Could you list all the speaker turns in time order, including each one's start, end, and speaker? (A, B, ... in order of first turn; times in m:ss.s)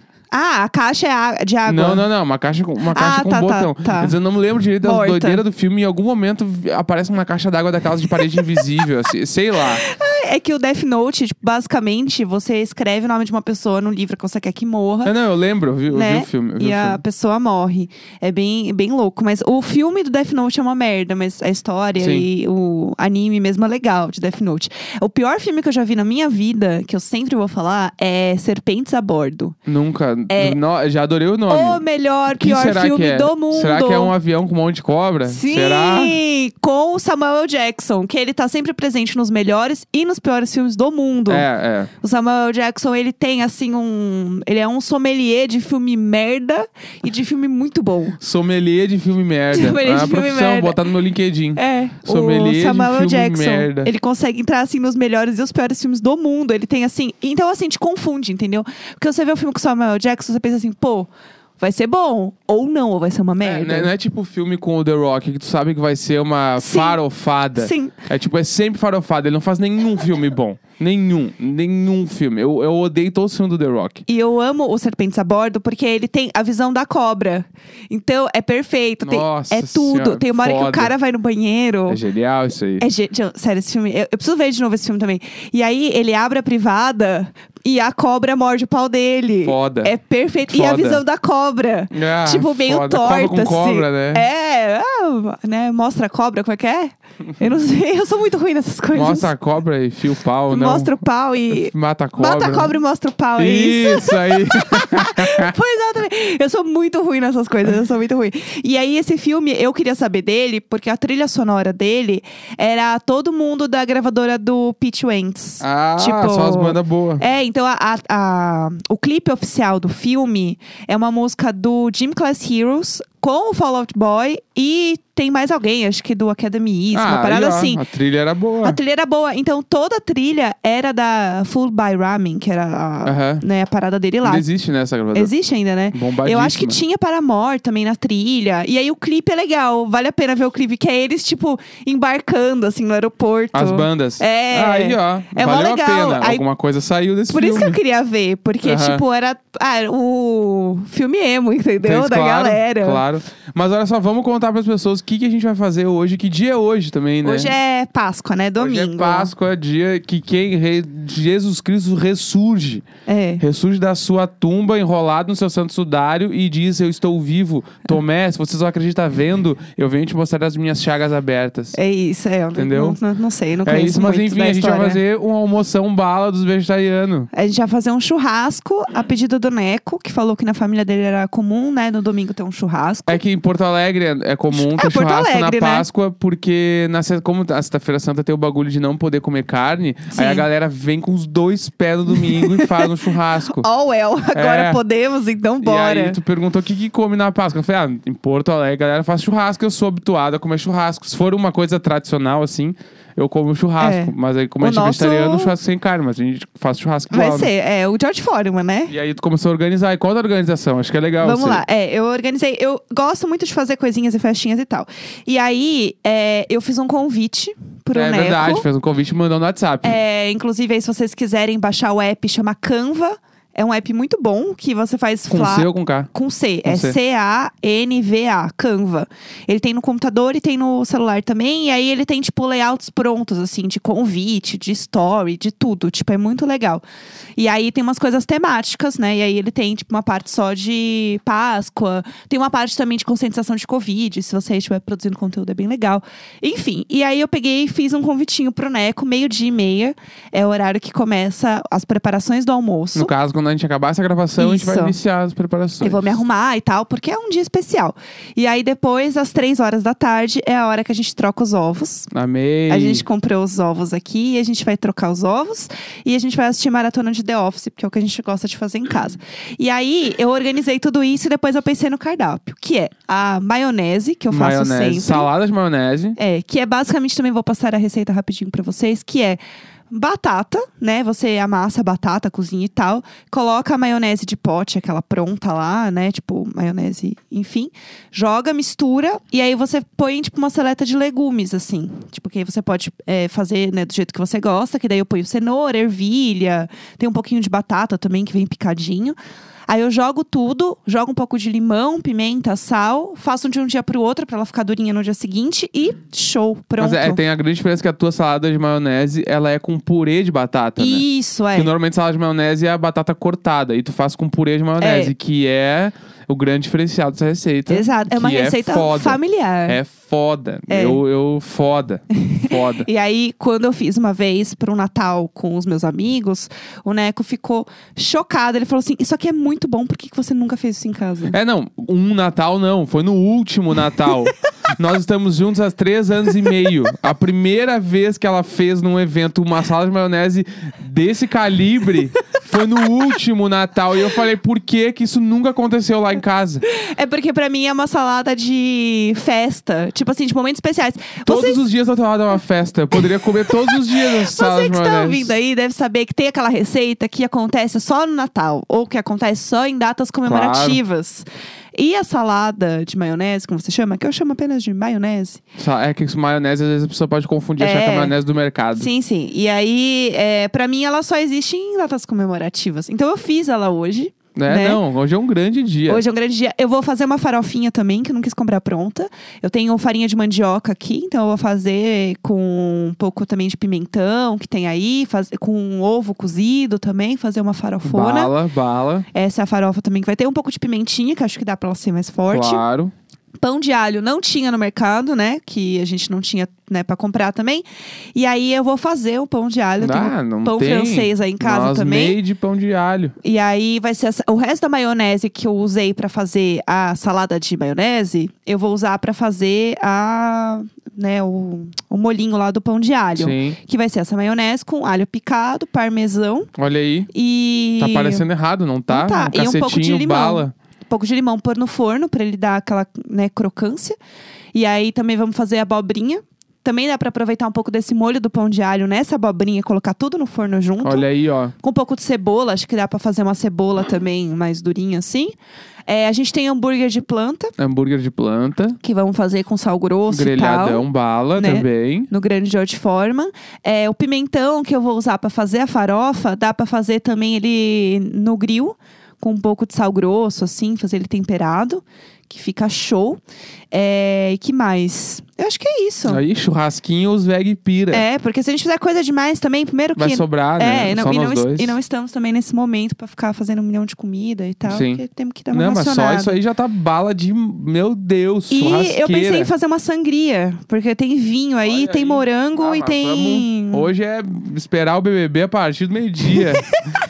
0:00.3-0:02.0 A
0:01.7-0:09.8 B
0:02.9-0:04.2 A
0:04.8-0:05.4 A
0:08.1-0:08.6 A
0:09.7-0:15.1 A
0:15.0-0:17.0 B
0:15.9-0:29.6 A
0:22.0-0:22.3 B
0:29.7-0:36.2 B
0:30.3-0:30.6 A
0:31.5-0:34.1 A
0:35.3-0:41.4 A
0:41.3-0:41.9 B
0:42.0-0:48.2 A
0:48.2-0:53.9 B
0:49.5-0:50.8 A
0:51.6-1:03.9 A
1:03.4-1:14.0 B
1:06.6-1:07.0 A
1:07.6-1:08.0 A
1:14.1-1:22.0 A
1:19.0-1:20.9 B
1:21.9-1:22.8 B
1:22.8-1:39.3 A
1:29.4-1:29.9 B
1:30.5-1:31.0 B
1:31.9-1:34.3 B
1:38.9-1:40.9 B
1:40.5-2:07.8 A
1:41.5-1:42.7 B
1:43.4-1:45.5 B
1:55.6-1:57.2 B
2:06.9-2:08.8 B
2:08.6-2:14.5 A
2:13.0-2:13.4 B
2:14.2-2:15.3 B
2:15.1-2:26.4 A
2:15.9-2:16.8 B
2:23.5-2:27.8 B
2:27.3-2:33.0 A
2:28.6-2:29.0 B
2:31.8-2:37.6 B
2:37.2-2:39.3 A
2:38.6-2:42.8 B
2:43.1-2:43.4 A
2:43.4-2:51.8 B
2:51.7-2:55.0 A
2:52.6-2:53.0 B
2:53.6-2:57.3 B
2:57.3-3:03.2 A
3:03.1-3:13.7 B
3:04.5-3:05.9 A
3:10.1-3:10.4 A
3:12.2-3:12.9 A
3:13.5-3:16.2 A
3:14.3-3:14.8 B
3:15.6-3:27.5 B
3:23.8-3:25.5 A
3:27.1-3:28.9 A
3:28.9-3:31.6 B
3:31.2-3:38.7 A
3:37.9-3:40.0 B
3:39.8-3:56.8 A
3:45.3-3:46.1 B
3:46.6-3:47.0 B
3:57.4-4:13.1 A
4:13.0-4:16.2 B
4:14.4-4:15.0 A
4:15.8-4:22.1 A
4:22.1-4:23.0 B
4:22.7-4:35.3 A
4:34.3-4:36.2 B
4:36.2-4:59.2 A
4:59.7-5:07.2 A
5:06.8-5:22.9 B
5:10.8-5:11.7 A
5:14.8-5:15.1 A
5:17.7-5:19.8 A
5:20.7-5:21.0 A
5:22.1-5:31.4 A
5:31.3-5:46.6 B
5:46.7-5:51.6 A
5:51.3-5:55.3 B
5:53.0-6:05.4 A
6:00.2-6:00.8 B
6:05.6-6:08.9 B
6:07.6-6:08.1 A
6:08.8-6:14.8 A
6:14.4-6:16.0 B
6:15.9-6:28.3 A
6:27.8-6:29.1 B
6:29.1-6:32.6 A
6:32.3-6:32.9 B
6:33.4-6:42.2 A
6:39.8-6:43.2 B
6:43.2-6:56.5 A
6:53.2-6:53.6 B
6:56.6-6:57.1 B
6:57.1-6:58.2 A
6:57.8-7:00.5 B
6:58.9-7:04.0 A
7:04.5-7:11.1 A
7:10.8-7:11.5 B
7:11.6-7:15.4 A
7:15.9-7:17.5 A
7:17.6-7:18.8 B
7:18.8-7:33.2 A
7:20.1-7:22.1 B
7:33.7-7:36.2 A
7:36.1-7:38.0 B
7:37.9-7:46.4 A
7:40.0-7:41.8 B
7:44.6-7:49.5 B
7:48.5-7:53.9 A
7:51.6-7:56.7 B
7:56.3-7:56.8 A